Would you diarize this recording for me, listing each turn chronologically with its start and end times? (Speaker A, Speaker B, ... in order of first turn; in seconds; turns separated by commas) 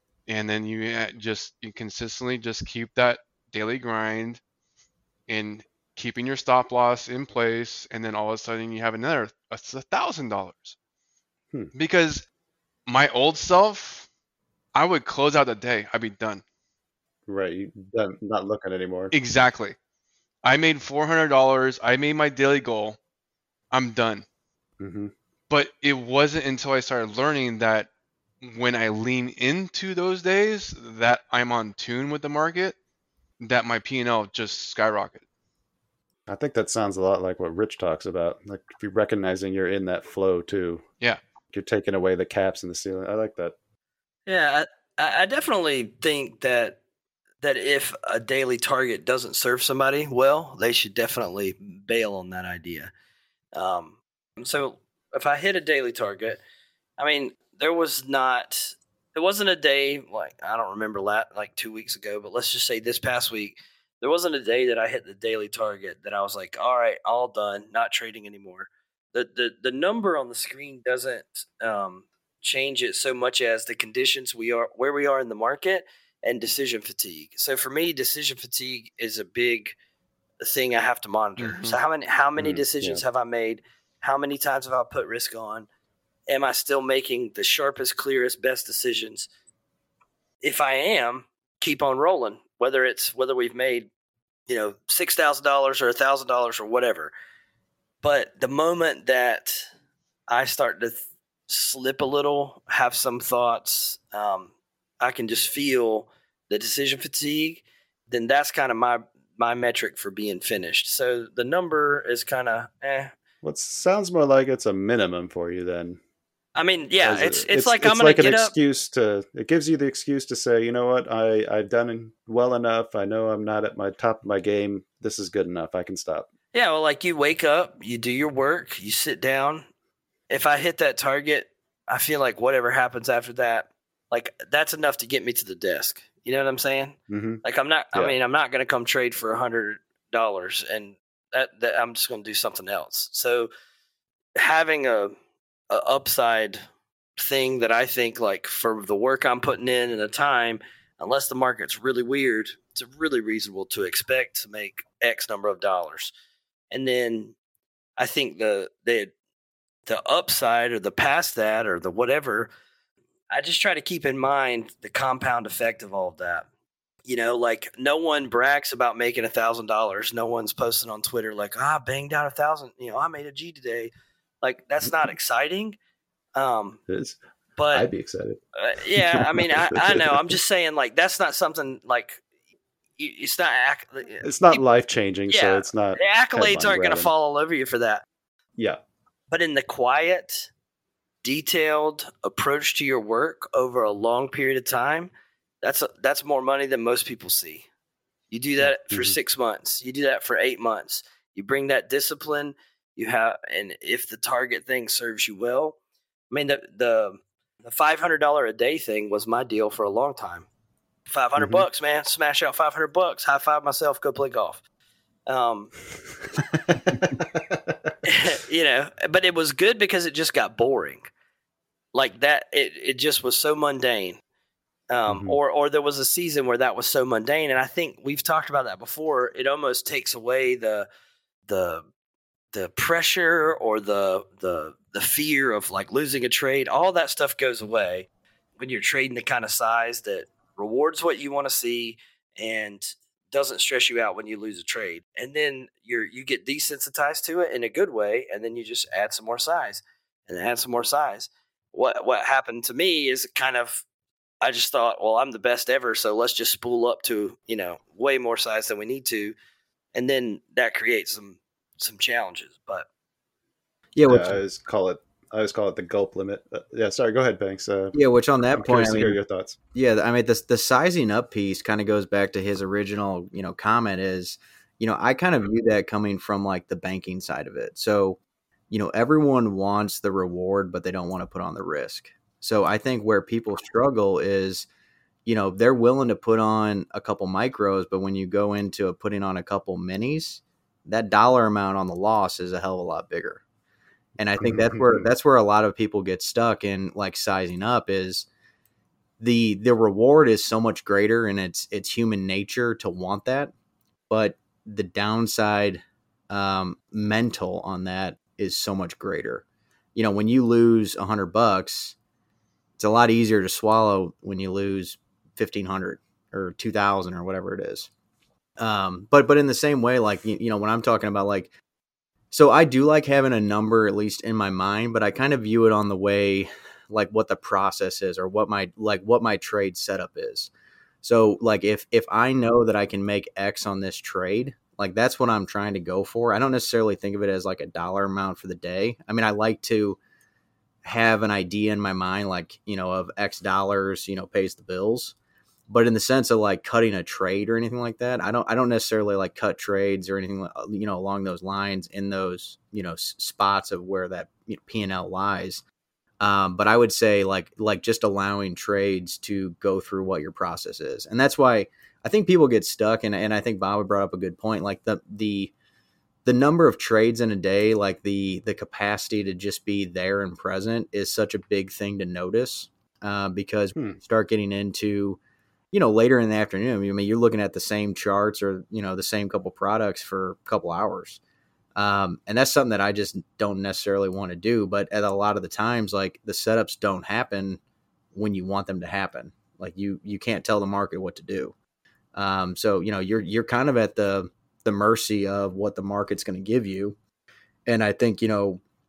Speaker A: 0.3-4.4, Speaker A: 5.3-10.8, Speaker A: 11.7-12.2, Speaker A: 12.9-14.1, Speaker A: 14.7-16.4, Speaker B: 17.3-19.1, Speaker A: 19.1-19.8, Speaker A: 20.4-23.0, Speaker A: 23.7-24.2, Speaker B: 24.8-25.1, Speaker A: 25.5-27.9, Speaker A: 28.4-32.7, Speaker A: 33.4-35.2, Speaker B: 36.3-40.8, Speaker B: 41.5-43.5, Speaker C: 44.3-46.8, Speaker C: 47.4-52.9, Speaker C: 53.5-56.4, Speaker C: 57.0-79.7, Speaker C: 80.4-85.7, Speaker A: 81.4-81.8, Speaker B: 82.4-83.0, Speaker C: 86.3-89.3, Speaker C: 90.4-93.9, Speaker C: 94.5-97.1, Speaker C: 98.0-99.7, Speaker C: 100.3-113.1, Speaker B: 113.4-116.0, Speaker C: 116.5-118.5, Speaker B: 117.0-126.2, Speaker C: 126.5-129.7, Speaker C: 130.3-143.5, Speaker B: 137.1-137.4, Speaker C: 144.4-145.1, Speaker C: 145.7-146.6, Speaker C: 147.2-156.1, Speaker C: 156.7-157.3, Speaker C: 158.0-159.1, Speaker C: 159.8-162.5, Speaker C: 163.3-166.4, Speaker C: 167.0-173.9, Speaker C: 174.4-175.8, Speaker C: 176.3-176.8, Speaker B: 176.9-177.2, Speaker C: 177.6-177.9, Speaker B: 177.7-178.4, Speaker C: 178.6-182.2, Speaker C: 183.0-184.6, Speaker B: 184.2-187.1, Speaker C: 185.3-188.0, Speaker C: 189.3-190.5, Speaker C: 191.2-195.1, Speaker C: 195.6-197.6, Speaker C: 198.3-205.8, Speaker B: 198.7-199.2, Speaker C: 206.3-210.5, Speaker C: 211.1-214.6, Speaker C: 215.3-215.8, Speaker C: 218.0-221.1, Speaker C: 221.9-224.2, Speaker C: 224.9-230.9, Speaker B: 225.1-225.3, Speaker C: 231.5-231.9, Speaker C: 232.5-238.1, Speaker C: 238.6-253.8, Speaker C: 254.4-259.3, Speaker C: 259.9-262.9, Speaker D: 263.9-264.4, Speaker B: 264.1-267.9, Speaker D: 267.9-269.2, Speaker B: 268.5-269.5, Speaker D: 269.7-278.2, Speaker D: 278.7-284.7, Speaker D: 285.2-293.4, Speaker D: 294.2-298.2, Speaker B: 294.4-295.0, Speaker D: 299.2-303.5, Speaker D: 304.1-309.4, Speaker D: 309.9-311.9, Speaker D: 312.8-317.9, Speaker D: 318.6-321.5, Speaker D: 322.3-330.5, Speaker D: 331.0-340.0, Speaker D: 340.8-345.1, Speaker D: 345.7-355.6, Speaker D: 356.2-365.5, Speaker D: 366.2-375.2, Speaker D: 375.7-381.2, Speaker D: 381.8-387.6, Speaker D: 388.1-391.5, Speaker D: 392.1-397.0, Speaker D: 397.7-398.6